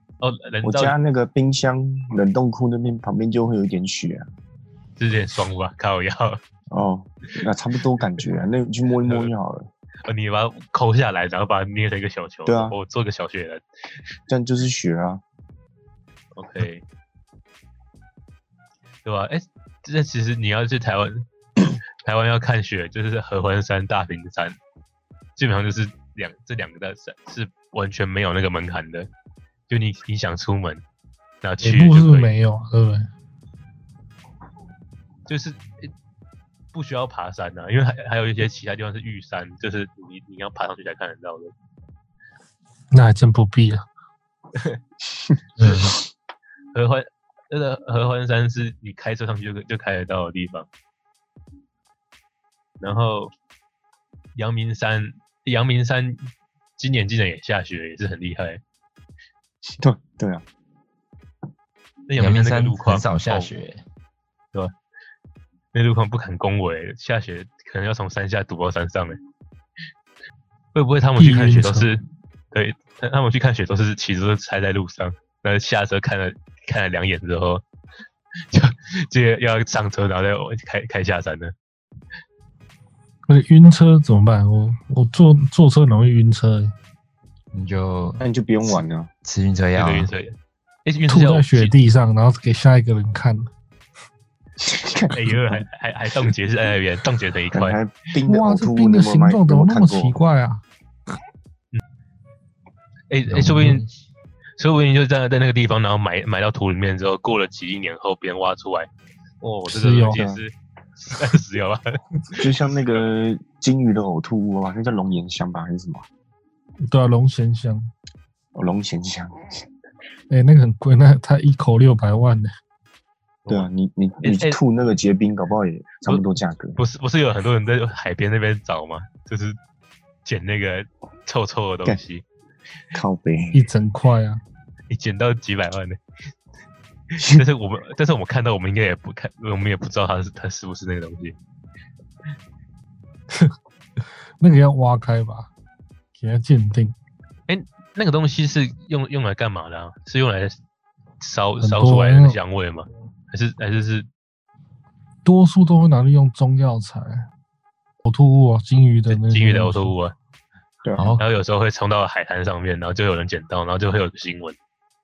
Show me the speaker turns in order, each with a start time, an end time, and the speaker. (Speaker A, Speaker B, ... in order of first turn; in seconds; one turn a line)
Speaker A: 0.2-1.0
Speaker B: 0.6-4.3
Speaker A: 5.0-6.4
Speaker B: 6.7-9.7
Speaker A: 9.0-9.3
Speaker A: 10.1-13.6
Speaker B: 12.5-12.8
Speaker B: 14.3-15.2
Speaker A: 16.4-16.8
Speaker A: 19.1-21.3
Speaker A: 22.0-24.6
Speaker A: 25.4-29.1
Speaker A: 29.7-30.8
Speaker A: 31.4-32.3
Speaker C: 31.6-33.1
Speaker A: 35.3-35.9
Speaker A: 36.7-41.5
Speaker C: 42.9-43.9
Speaker A: 44.5-44.8
Speaker D: 45.6-46.0
Speaker A: 46.7-50.7
Speaker A: 52.8-53.3
Speaker A: 54.4-58.6
Speaker B: 59.8-60.5
Speaker A: 62.1-63.5
Speaker D: 62.2-63.8
Speaker A: 65.7-69.2
Speaker A: 70.7-77.6
Speaker C: 71.2-71.9
Speaker A: 78.5-81.5
Speaker C: 83.3-86.7
Speaker D: 87.5-88.2
Speaker B: 88.2-89.1
Speaker D: 89.2-90.1
Speaker A: 89.8-91.7
Speaker C: 91.1-93.5
Speaker B: 94.6-95.7
Speaker A: 95.1-97.8
Speaker B: 97.5-100.2
Speaker C: 98.3-100.6
Speaker A: 103.1-103.8
Speaker D: 103.3-103.9
Speaker A: 104.6-108.9
Speaker A: 109.4-112.7
Speaker C: 109.7-110.2
Speaker B: 110.1-110.4
Speaker B: 112.4-116.1
Speaker C: 116.9-117.9
Speaker B: 118.5-119.3
Speaker C: 120.3-122.5
Speaker B: 123.5-126.8
Speaker A: 124.2-124.6
Speaker A: 126.0-129.6
Speaker A: 130.2-132.2
Speaker B: 132.9-133.7
Speaker C: 133.5-134.4
Speaker A: 134.9-136.0
Speaker B: 137.2-137.4
Speaker A: 137.2-141.4
Speaker C: 144.4-145.5
Speaker C: 146.2-147.0
Speaker A: 147.5-150.6
Speaker A: 151.2-154.1
Speaker C: 151.6-152.4
Speaker C: 155.2-157.3
Speaker C: 158.0-159.9
Speaker A: 159.1-160.2
Speaker B: 160.8-161.2
Speaker D: 161.0-161.2
Speaker A: 161.2-164.6